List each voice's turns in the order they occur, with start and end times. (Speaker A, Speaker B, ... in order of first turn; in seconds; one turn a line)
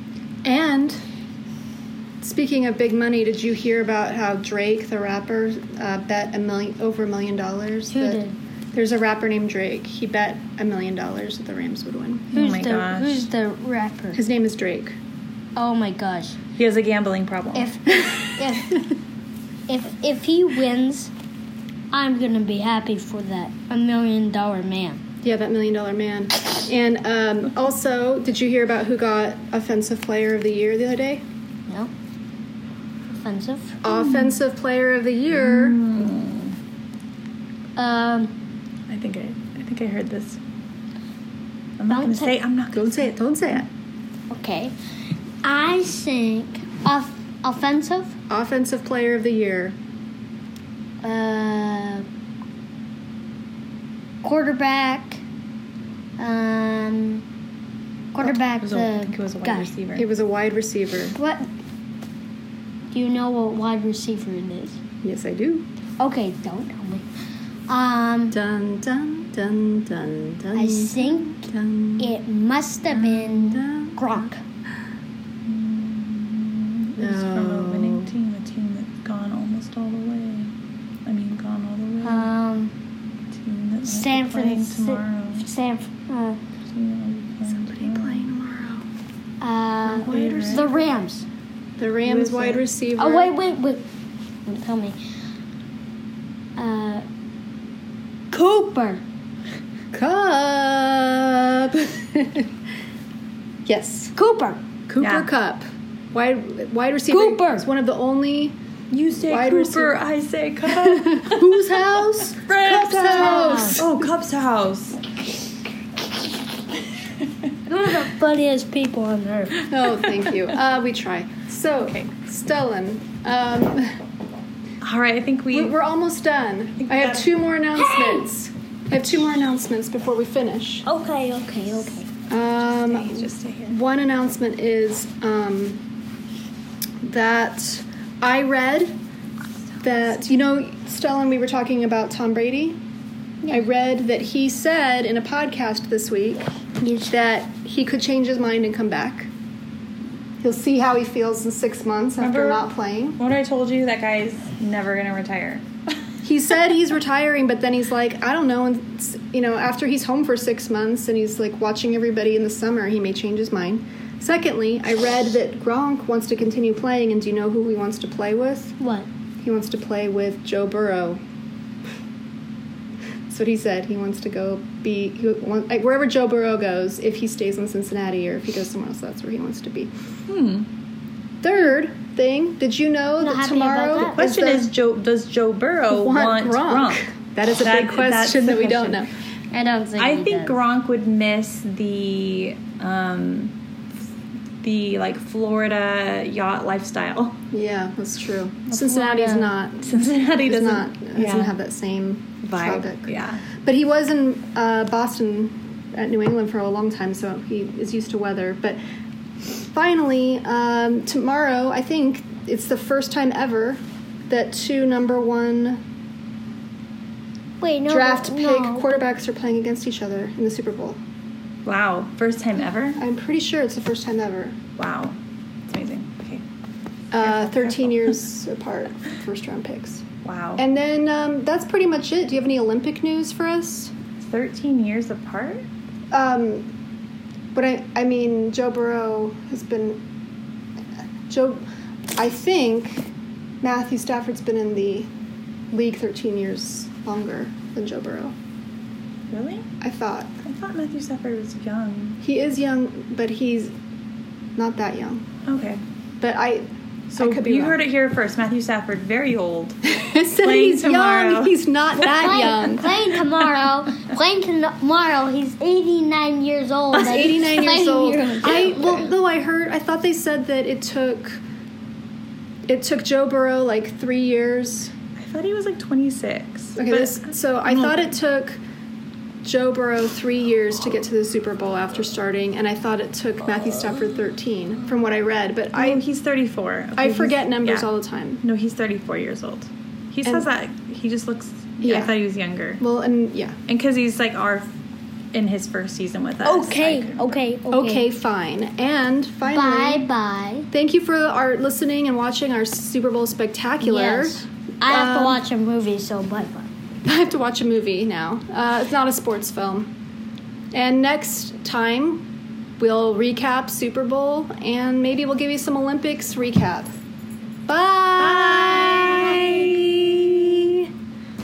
Speaker A: 0.4-1.0
Speaker A: 2.2-8.2
Speaker B: 7.9-8.4
Speaker A: 8.7-12.3
Speaker C: 12.3-13.2
Speaker B: 12.3-14.2
Speaker A: 14.1-15.0
Speaker B: 15.6-16.4
Speaker C: 16.6-17.7
Speaker B: 17.5-18.8
Speaker B: 19.7-21.1
Speaker B: 21.9-25.0
Speaker A: 25.2-31.2
Speaker B: 33.1-33.8
Speaker A: 33.8-35.8
Speaker C: 33.9-34.4
Speaker C: 35.3-36.5
Speaker B: 37.8-38.3
Speaker C: 38.9-40.4
Speaker C: 41.8-43.1
Speaker B: 41.9-42.4
Speaker A: 42.7-43.7
Speaker B: 44.3-44.7
Speaker B: 45.4-48.1
Speaker A: 48.3-49.8
Speaker B: 51.0-52.0
Speaker B: 54.2-55.2
Speaker B: 56.2-57.2
Speaker B: 58.1-59.7
Speaker C: 58.2-60.0
Speaker A: 60.0-61.2
Speaker B: 61.1-61.5
Speaker B: 62.9-64.8
Speaker A: 65.0-65.7
Speaker B: 66.0-67.0
Speaker B: 67.7-68.3
Speaker A: 68.3-72.1
Speaker B: 70.5-71.5
Speaker B: 72.0-74.4
Speaker A: 72.9-74.2
Speaker C: 75.5-80.5
Speaker A: 77.0-78.1
Speaker C: 81.0-82.3
Speaker B: 82.0-82.7
Speaker C: 83.3-85.5
Speaker B: 83.9-86.4
Speaker C: 86.7-88.3
Speaker A: 87.5-88.8
Speaker B: 89.4-91.2
Speaker A: 89.8-90.8
Speaker C: 90.0-90.7
Speaker A: 91.8-93.3
Speaker C: 92.0-92.6
Speaker B: 93.0-93.8
Speaker B: 94.5-95.0
Speaker B: 96.5-97.0
Speaker B: 98.3-99.0
Speaker A: 99.9-102.5
Speaker A: 103.7-104.1
Speaker B: 104.2-104.6
Speaker A: 104.9-108.5
Speaker C: 105.0-105.3
Speaker B: 107.1-107.6
Speaker C: 108.9-115.0
Speaker A: 109.3-110.0
Speaker A: 110.7-114.1
Speaker B: 113.1-113.8
Speaker B: 117.7-119.6
Speaker A: 119.7-123.9
Speaker C: 121.8-122.1
Speaker C: 124.8-125.7
Speaker A: 125.5-130.8
Speaker C: 126.8-127.3
Speaker B: 127.8-128.2
Speaker B: 130.8-132.1
Speaker A: 132.3-135.8
Speaker C: 132.6-133.8
Speaker A: 137.0-138.9
Speaker A: 139.8-142.8
Speaker A: 143.4-146.5
Speaker B: 146.8-147.1
Speaker A: 147.1-149.3
Speaker A: 150.4-153.2
Speaker C: 152.2-155.7
Speaker A: 156.2-168.8
Speaker B: 168.8-169.1
Speaker A: 169.4-171.2
Speaker A: 173.3-179.9
Speaker C: 180.3-180.7
Speaker A: 181.4-184.7
Speaker B: 183.2-184.2
Speaker C: 184.1-189.1
Speaker A: 185.9-189.1
Speaker B: 189.5-190.6
Speaker C: 190.0-193.5
Speaker C: 194.6-197.3
Speaker A: 197.5-199.9
Speaker B: 198.7-199.5
Speaker C: 199.8-201.6
Speaker A: 200.4-203.1
Speaker C: 202.4-203.4
Speaker A: 203.6-208.8
Speaker A: 209.6-215.8
Speaker B: 217.6-218.9
Speaker A: 217.9-221.0
Speaker C: 221.7-223.0
Speaker A: 222.9-224.6
Speaker C: 224.8-225.2
Speaker C: 225.7-226.4
Speaker A: 227.1-230.0
Speaker C: 227.2-228.1
Speaker C: 230.2-230.6
Speaker A: 230.6-233.9
Speaker C: 234.2-235.7
Speaker A: 236.1-236.7
Speaker A: 237.5-240.0
Speaker A: 241.3-241.6
Speaker A: 242.2-243.1
Speaker A: 243.6-245.1
Speaker A: 245.7-248.3
Speaker C: 249.3-249.7
Speaker A: 249.8-250.3
Speaker C: 250.4-252.2
Speaker A: 252.2-253.7
Speaker A: 254.6-255.2
Speaker C: 255.5-255.8
Speaker A: 256.2-257.8
Speaker C: 257.1-259.8
Speaker A: 259.9-262.9
Speaker C: 260.4-261.6
Speaker B: 262.0-269.0
Speaker A: 266.9-271.4
Speaker A: 272.7-274.9
Speaker C: 275.1-278.0
Speaker A: 276.8-278.6
Speaker A: 279.4-286.0
Speaker C: 285.7-287.9
Speaker A: 287.0-288.4
Speaker C: 288.4-292.8
Speaker A: 291.8-292.1
Speaker A: 292.8-293.5
Speaker C: 293.7-294.7
Speaker C: 295.3-297.4
Speaker B: 296.4-298.1
Speaker A: 297.7-300.0
Speaker B: 299.5-300.7
Speaker A: 300.7-305.4
Speaker B: 303.8-306.7
Speaker A: 307.0-309.9
Speaker A: 310.7-312.2
Speaker A: 312.8-316.9
Speaker A: 317.7-319.5
Speaker C: 318.2-320.9